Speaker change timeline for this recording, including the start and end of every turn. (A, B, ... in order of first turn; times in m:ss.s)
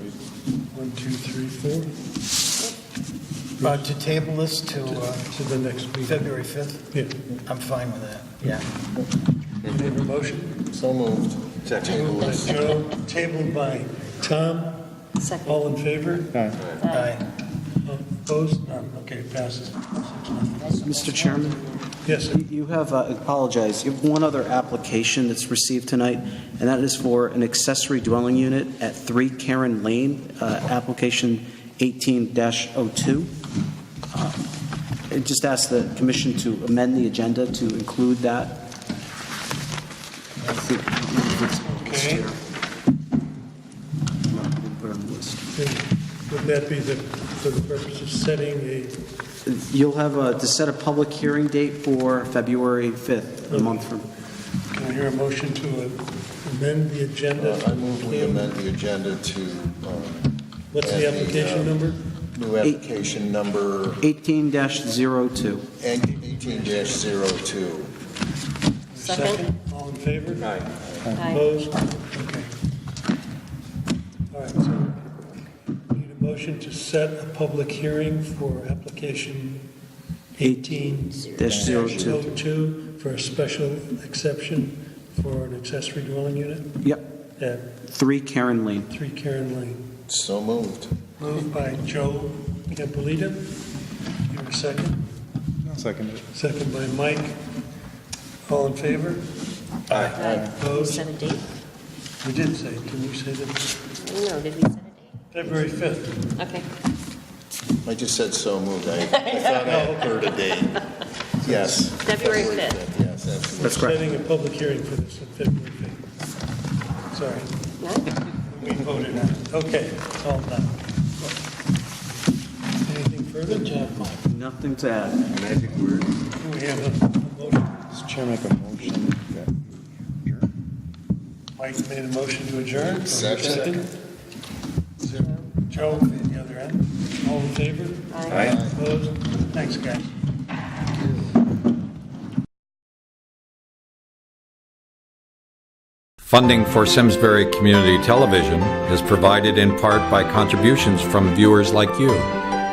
0:00.7-0:01.9 A
0:03.6-0:03.9 A
0:03.6-0:05.2 B
0:04.8-0:06.3 A
0:06.0-0:06.8 B
0:07.4-0:08.6 B
0:09.6-0:10.6 A
0:10.6-0:12.5 C
0:11.8-0:14.8 A
0:15.2-0:15.6 D
0:15.4-0:16.5 A
0:16.3-0:16.6 E
0:16.6-0:17.2 D
0:16.9-0:17.2 B
0:17.8-0:20.8 A
0:20.6-0:21.6 D
0:20.8-0:33.3 F
0:22.0-0:22.4 A
0:34.1-0:34.4 F
0:35.1-0:38.7 F
0:40.4-0:42.4 F
0:41.8-0:42.2 A
0:44.3-0:45.4 F
0:45.5-0:49.0 A
0:49.4-0:54.0 F
0:53.5-0:53.8 A
0:54.7-0:58.6 A
0:57.4-1:01.8 C
1:00.7-1:02.0 A
1:02.3-1:04.0 C
1:02.6-1:02.9 F
1:04.0-1:05.7 F
1:05.8-1:07.9 C
1:06.2-1:07.1 A
1:08.9-1:10.6 A
1:09.0-1:09.4 D
1:11.0-1:11.3 E
1:11.1-1:11.5 D
1:11.2-1:12.5 A
1:14.3-1:15.0 A
1:15.9-1:19.6 A
1:20.4-1:26.8 A
1:20.4-1:20.7 F
1:21.3-1:22.3 F
1:21.5-1:22.1 E
1:27.4-1:27.6 A
1:27.9-1:28.9 F
1:28.9-1:29.8 A
1:30.1-1:31.0 C
1:31.2-1:33.5 A
1:34.3-1:35.0 A
1:35.6-1:36.2 E
1:36.3-1:37.4 A
1:38.5-1:39.2 A
1:39.9-1:40.2 G
1:39.9-1:41.1 A
1:40.1-1:41.5 D
1:42.2-1:43.7 A
1:44.0-1:45.1 D
1:45.3-1:46.2 A
1:46.4-1:46.7 D
1:47.8-1:50.8 C
1:49.3-1:49.5 D
1:49.6-1:50.2 A
1:51.4-1:53.9 C
1:51.4-1:51.8 A
1:51.9-1:52.8 D
1:53.6-1:54.0 F
1:53.6-1:56.0 A
1:57.1-1:57.5 A
1:57.8-1:58.1 D
1:58.3-2:00.8 A
2:02.8-2:04.0 A
2:04.0-2:05.3 F
2:06.4-2:07.8 A
2:07.9-2:10.5 E
2:11.6-2:13.9 A
2:12.7-2:13.8 C
2:15.0-2:20.1 A
2:18.1-2:18.5 D
2:18.5-2:18.7 C
2:26.3-2:32.3 G